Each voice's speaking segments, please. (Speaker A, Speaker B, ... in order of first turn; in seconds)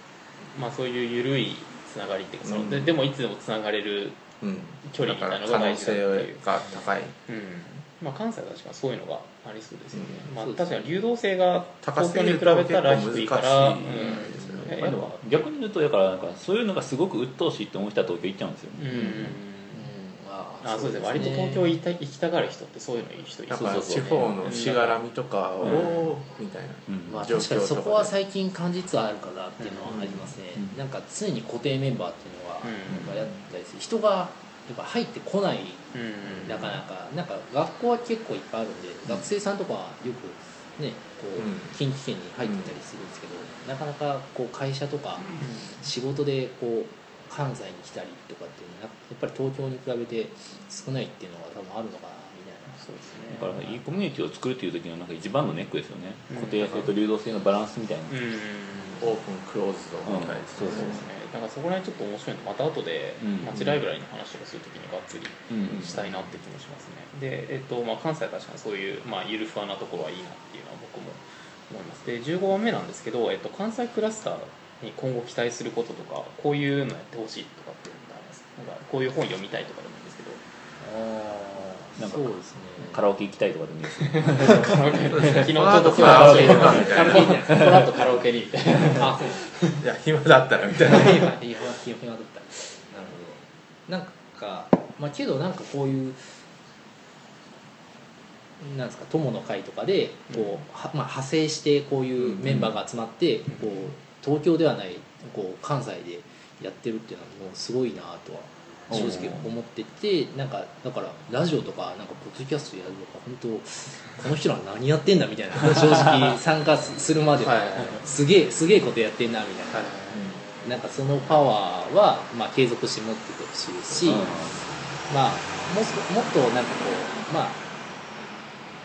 Speaker A: 0.5-4.2, 4.8-6.5, 7.3-15.4, 18.8-19.8, 20.6-25.0, 25.6-26.0, 29.6-29.9, 32.6-33.1, 35.9-36.8, 45.4-45.8, 52.8-53.8, 56.3-56.9, 58.1-59.1, 60.6-80.4, 84.0-89.8, 100.3-100.6, 103.5-103.9, 108.9-109.5, 117.4-118.0, 119.7-120.3
Speaker B: 2.4-3.0, 4.4-7.2, 11.8-14.7, 23.5-28.1, 29.9-30.2, 41.4-41.7, 42.4-42.7, 59.0-61.0, 85.1-87.4, 89.8-91.3
Speaker C: 10.3-11.0, 14.0-14.6, 19.7-21.8, 27.1-52.8, 80.8-83.0, 86.7-87.7, 89.0-89.4, 90.8-96.4, 98.6-119.9, 120.6-124.3, 125.1-127.6
Speaker D: 14.7-19.4, 23.6-24.7, 26.9-27.2, 32.9-33.2, 53.3-58.1, 60.0-61.0, 63.2-63.6, 65.5-66.0, 82.0-85.4, 86.0-87.8, 102.4-102.7, 108.9-109.4, 120.1-120.4, 124.0-124.6